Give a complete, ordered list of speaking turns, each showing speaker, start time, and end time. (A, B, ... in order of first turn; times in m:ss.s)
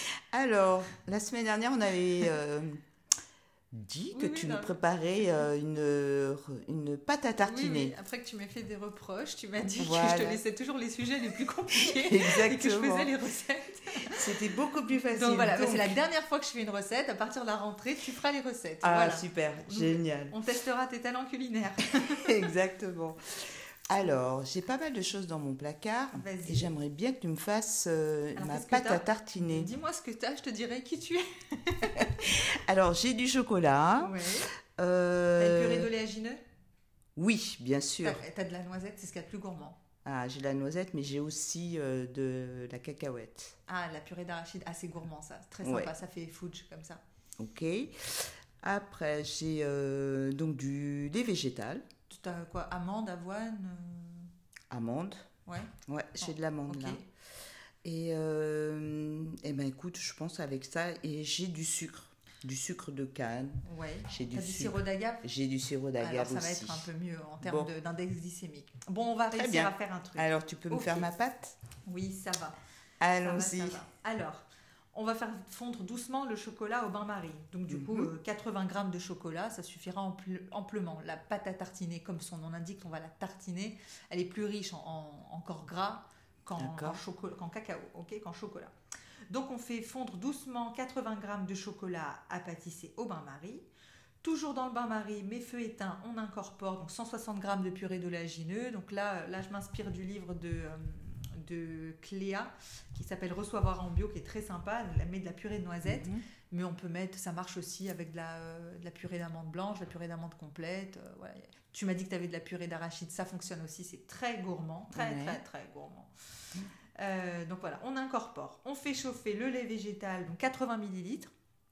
0:00.3-0:02.8 A
0:03.7-0:07.9 A
0:04.1-0:04.8 B
0:07.4-0:14.3 B
0:09.8-0:10.4 A
0:11.8-0:13.1 A
0:14.1-0:16.0 A
0:15.1-0:22.4 B
0:18.8-0:20.4 A
0:22.2-0:29.7 A
0:26.1-0:26.7 B
0:28.4-0:32.3 B
0:32.0-0:34.1 A
0:34.0-0:34.5 B
0:34.8-0:35.9 A
0:35.4-0:36.4 B
0:37.2-0:38.2 A
0:38.0-0:39.8 B
0:40.0-0:43.6 A
0:43.7-0:47.0 B
0:45.6-0:45.9 A
0:47.4-0:51.8 A
0:52.1-0:54.3 B
0:54.7-0:55.3 A
0:55.5-0:57.0 B
0:55.9-0:57.0 A
0:57.8-1:06.9 A
1:03.6-1:05.3 B
1:06.0-1:11.1 B
1:07.4-1:07.7 A
1:09.3-1:11.6 A
1:11.9-1:12.6 B
1:13.0-1:13.8 A
1:13.2-1:28.7 B
1:17.7-1:18.1 A
1:26.6-1:27.0 A
1:29.3-1:33.6 B
1:34.2-1:56.1 B
1:45.8-1:46.2 A
1:54.9-1:55.4 A
1:57.0-2:01.3 B